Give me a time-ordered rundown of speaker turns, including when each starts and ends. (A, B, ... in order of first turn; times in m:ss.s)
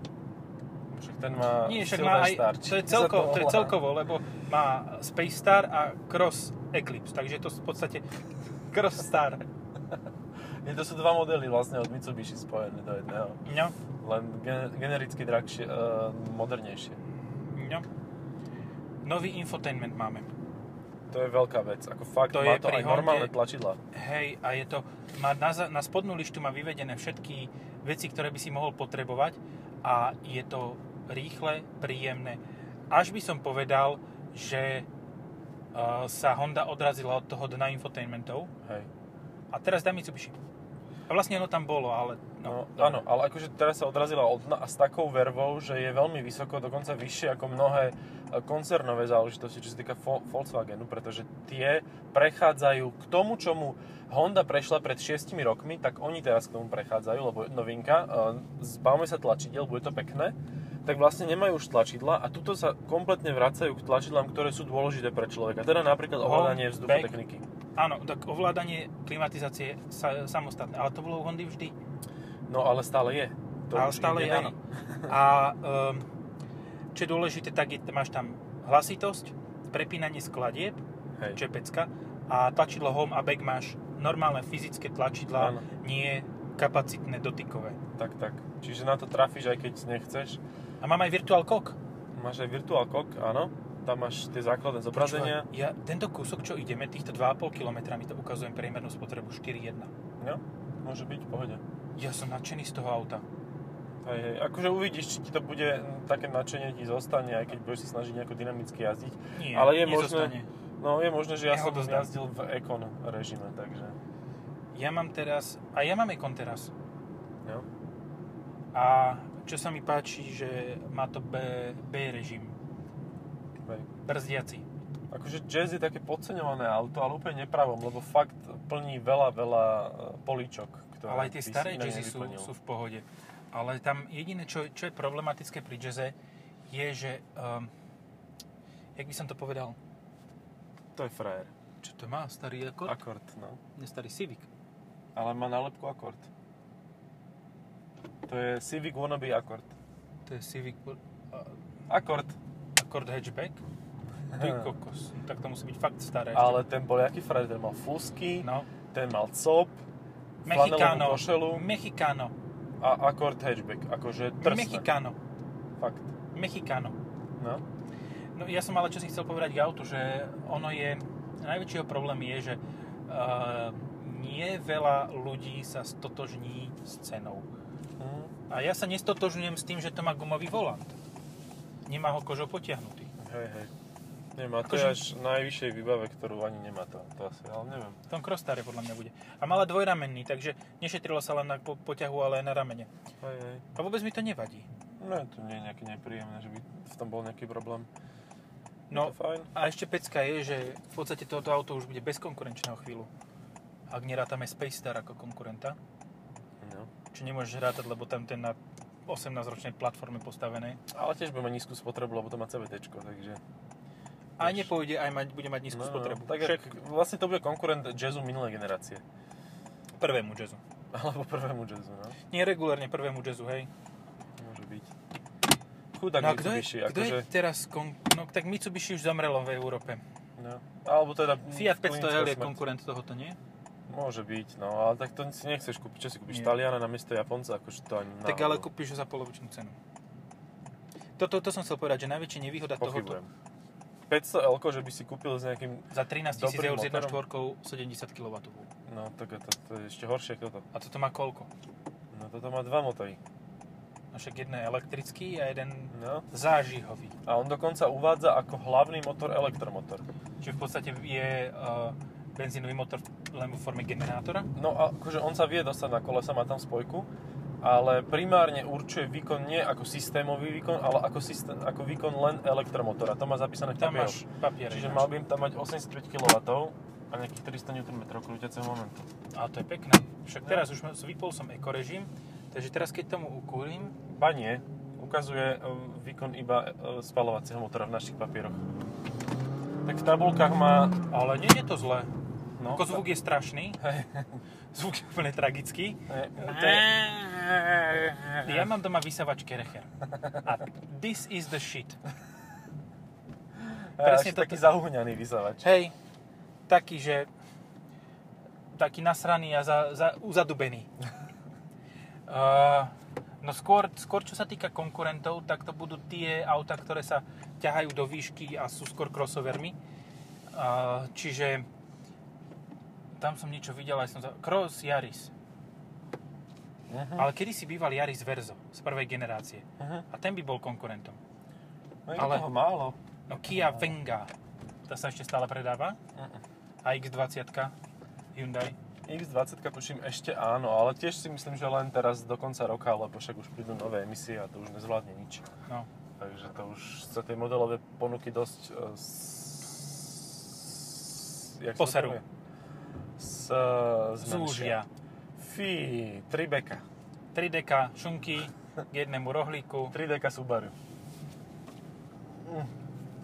0:00.9-0:03.8 A
0:01.6-0:08.0 B
0:08.7-0:09.4 B
0:10.6-0:13.4 A
0:13.4-0:13.8 B
0:14.0-0:17.0 A
0:17.5-0:17.8 B
0:19.0-0:20.3 B
0:21.1-0:23.8 A
0:22.3-0:23.3 B
0:23.9-0:34.9 B
0:35.7-0:38.5 B
0:38.6-0:38.9 A
0:39.5-0:40.4 B
0:41.1-0:43.1 B
0:42.4-1:07.5 A
1:06.2-1:07.2 B
1:07.8-1:11.8 B
1:12.5-1:15.1 A
1:13.7-1:16.0 B
1:16.9-1:20.8 B
1:21.3-1:27.8 B
1:25.4-1:25.6 A
1:28.0-1:30.4 A
1:30.8-1:31.8 B
1:32.1-1:35.5 A
1:34.9-1:39.9 B
1:40.2-1:41.6 A
1:42.0-1:43.2 B
1:44.0-1:54.0 A
1:49.4-1:50.5 B
1:51.5-1:52.1 B
1:54.7-1:56.7 B
1:58.7-2:02.6 B
2:03.6-2:03.9 A
2:04.1-2:04.6 B
2:05.1-2:12.5 A
2:11.1-2:16.2 B
2:16.7-2:17.7 B
2:19.0-2:19.8 B
2:21.0-2:21.5 A
2:21.8-2:23.0 B
2:22.9-2:23.6 A
2:23.8-2:24.5 B
2:25.2-2:26.3 A
2:28.3-2:29.7 A
2:30.3-2:31.5 B
2:31.9-2:32.4 A
2:32.8-2:33.6 B
2:34.3-2:34.7 A
2:34.4-2:36.6 B
2:36.3-2:39.8 A
2:38.4-2:38.7 B
2:40.4-2:41.6 A
2:40.4-2:42.3 B
2:42.8-2:44.9 A
2:44.4-2:45.2 B
2:45.8-2:46.1 A
2:46.3-2:47.0 B
2:47.4-2:47.6 A
2:48.4-2:57.5 B
2:58.0-2:58.3 A
2:58.5-3:01.0 B
3:01.9-3:03.1 B
3:03.2-3:03.7 A
3:04.4-3:08.0 A
3:04.6-3:05.0 B
3:08.1-3:12.9 B
3:13.2-3:13.6 A
3:13.8-3:14.7 B
3:15.0-3:17.9 A
3:18.9-3:23.1 B
3:18.9-3:19.5 A
3:23.9-3:25.8 B
3:26.6-3:26.9 A
3:27.1-3:30.8 B
3:30.9-3:33.4 A
3:34.4-3:34.7 A
3:34.4-3:36.6 B
3:35.7-3:39.0 A
3:40.0-3:40.6 B
3:40.9-3:42.2 A
3:42.3-3:43.7 B
3:44.4-3:44.9 A
3:45.9-3:47.3 A
3:46.2-3:50.0 B
3:50.4-3:52.6 A
3:51.5-3:53.4 B
3:53.9-3:58.7 A
3:56.3-3:56.6 B
3:58.2-3:59.8 B
4:01.2-4:03.2 B
4:02.8-4:03.3 A
4:04.1-4:07.2 A
4:05.9-4:08.7 B
4:08.9-4:10.6 A
4:10.7-4:11.5 B
4:12.1-4:13.2 A
4:14.1-4:17.2 B
4:15.9-4:16.3 A
4:17.3-4:20.0 A
4:20.4-4:24.5 B
4:24.6-4:27.1 A
4:27.6-4:39.1 A
4:33.8-4:35.1 B
4:39.3-4:44.0 B
4:44.1-4:48.6 A
4:49.8-4:51.0 A
4:51.1-4:52.1 B
4:52.6-4:53.1 A
4:52.7-4:53.8 B
4:53.8-4:54.4 A
4:54.7-4:56.9 B
4:56.1-4:58.7 A
4:58.4-4:59.9 B
5:00.1-5:00.5 A
5:00.4-5:02.0 B
5:03.6-5:05.7 A
5:04.0-5:04.7 B
5:05.6-5:05.9 B
5:06.7-5:07.3 B
5:08.7-5:10.9 B
5:12.3-5:19.8 B
5:20.5-5:21.7 B
5:23.2-5:25.3 B
5:26.9-5:27.3 A
5:27.2-5:31.2 B
5:29.8-5:30.1 A
5:32.1-5:33.9 A
5:32.2-5:32.5 B
5:33.3-5:34.3 B
5:34.9-5:36.0 B
5:36.2-5:36.4 A
5:36.8-5:37.7 B
5:38.3-5:38.8 B
5:39.1-5:45.5 A
5:46.2-5:52.2 A
5:51.8-5:52.2 B
5:53.2-5:54.8 A
5:54.2-5:54.9 B
5:55.4-5:56.8 A
5:57.3-6:00.0 B
5:59.9-6:00.7 A
6:02.4-6:02.7 A